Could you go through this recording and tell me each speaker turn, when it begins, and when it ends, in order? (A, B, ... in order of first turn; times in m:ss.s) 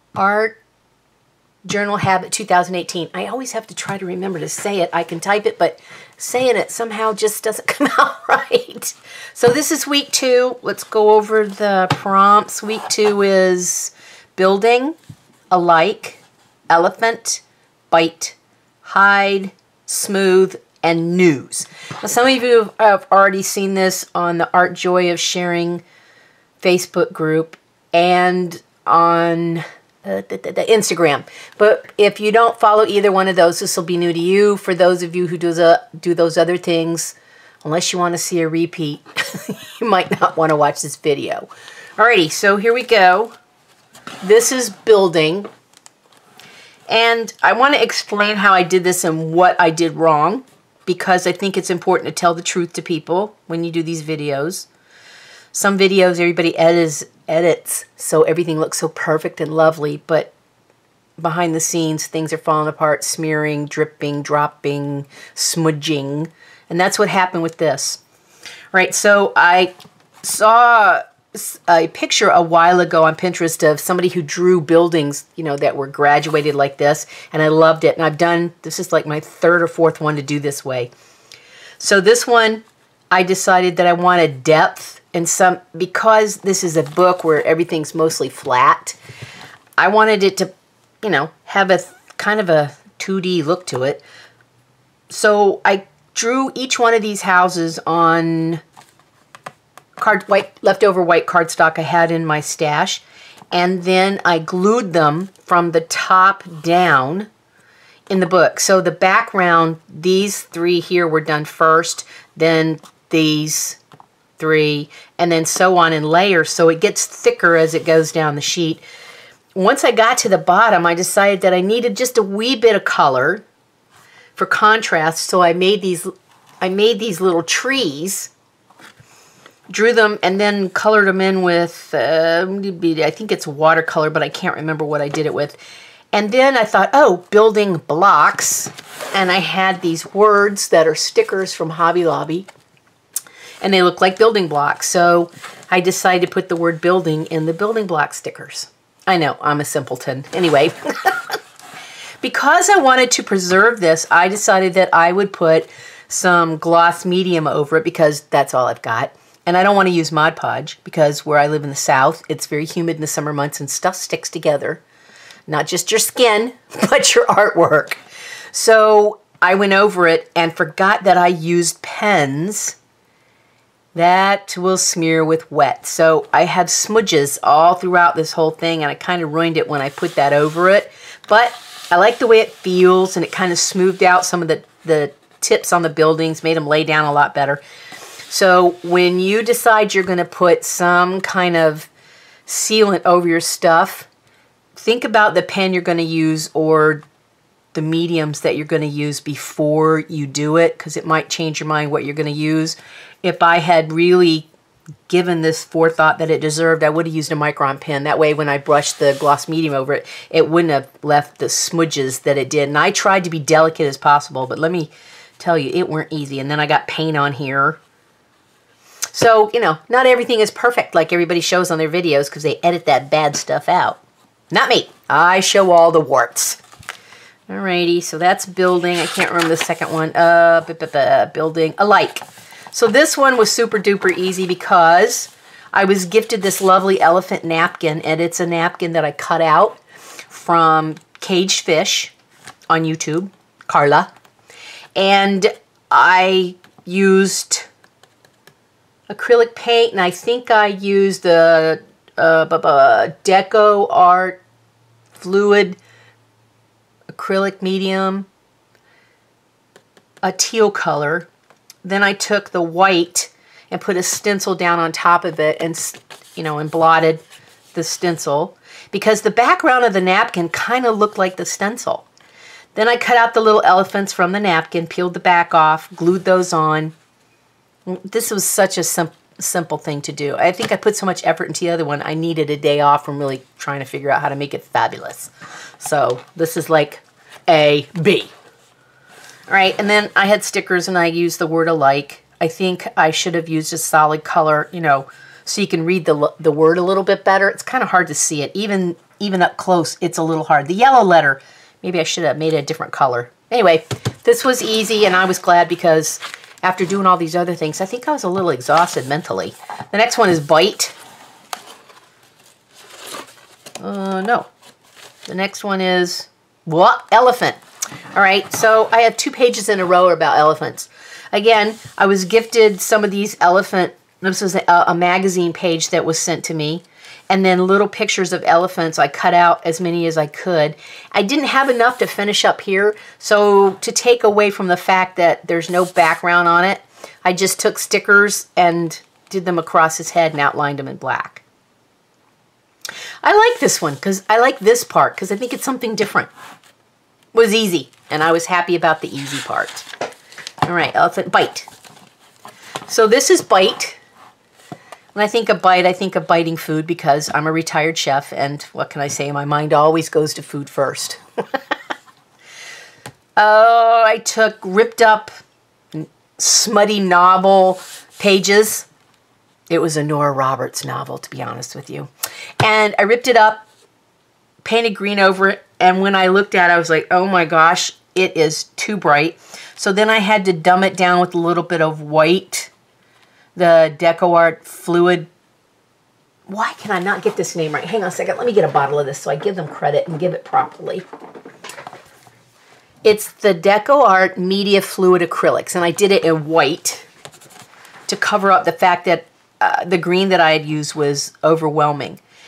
0:00.2-0:00.6 A
0:01.6-0:15.0 A
0:15.5-0:25.8 A
0:26.6-0:43.3 A
0:44.2-0:45.5 A
0:46.9-0:54.7 A
0:55.5-1:00.3 A
1:01.2-1:08.0 A
1:08.7-1:20.9 A
1:21.8-1:29.0 A
1:29.8-1:30.5 A
1:31.0-1:34.0 A
1:35.1-1:38.6 A
1:40.0-1:47.3 A
1:48.1-1:53.8 A
1:54.4-1:58.8 A
1:59.6-2:03.4 A
2:04.4-2:06.1 A
2:06.6-2:08.3 A
2:09.7-2:15.6 A
2:16.1-2:22.5 A
2:23.6-2:31.4 A
2:32.2-2:44.8 A
2:45.5-2:48.0 A
2:48.5-2:52.8 A
2:54.0-3:07.6 A
3:08.3-3:11.9 A
3:12.5-3:14.1 A
3:14.8-3:17.0 A
3:17.7-3:24.5 A
3:25.1-3:37.8 A
3:39.1-3:46.6 A
3:47.5-4:02.1 A
4:02.7-4:04.1 A
4:05.0-4:07.7 A
4:09.1-4:14.4 A
4:15.2-4:15.8 A
4:17.1-4:18.3 A
4:20.2-4:21.3 A
4:21.8-4:27.2 A
4:27.7-4:32.1 A
4:32.8-4:37.0 A
4:37.9-4:48.3 A
4:49.5-5:11.0 A
5:13.8-5:14.5 A
5:15.3-5:17.6 A
5:18.1-5:41.4 A
5:43.2-5:46.3 A
5:47.3-5:49.9 A
5:50.6-5:51.7 A
5:52.9-5:54.0 A
5:55.2-6:01.2 A
6:03.4-6:05.3 A
6:05.9-6:08.9 A
6:09.7-6:12.1 A
6:12.6-6:13.7 A
6:14.6-6:22.7 A
6:23.6-6:25.3 A
6:26.5-6:31.0 A
6:33.0-6:37.1 A
6:38.1-6:42.2 A